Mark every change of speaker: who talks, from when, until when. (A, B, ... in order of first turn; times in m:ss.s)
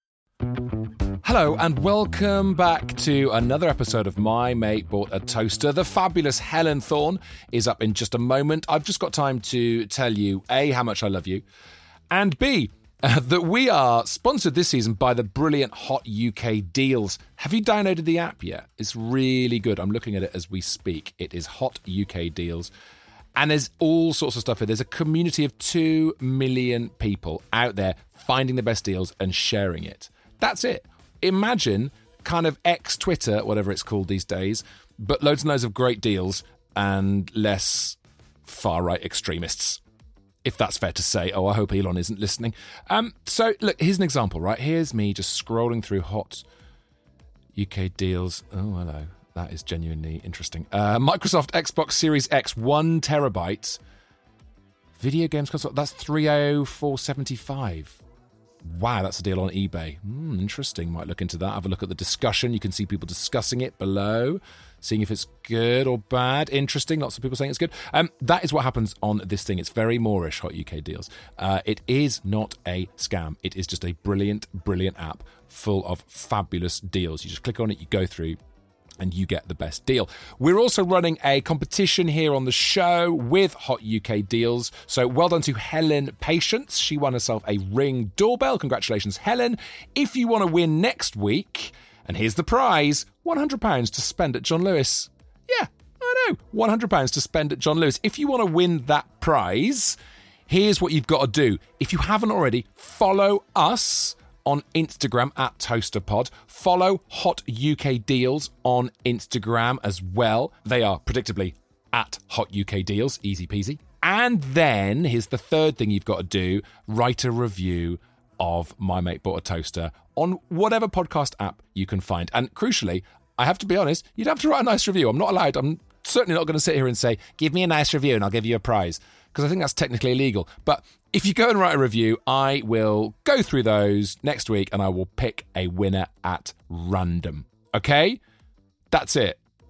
0:01.2-0:11.4 A
0:12.1-0:22.7 A
0:23.3-0:39.8 A
0:40.4-0:46.4 A
0:47.5-0:53.8 A
0:55.0-0:58.0 A
0:58.6-1:18.4 A
1:19.0-1:40.0 A
1:40.5-2:18.2 A
2:18.9-2:19.4 A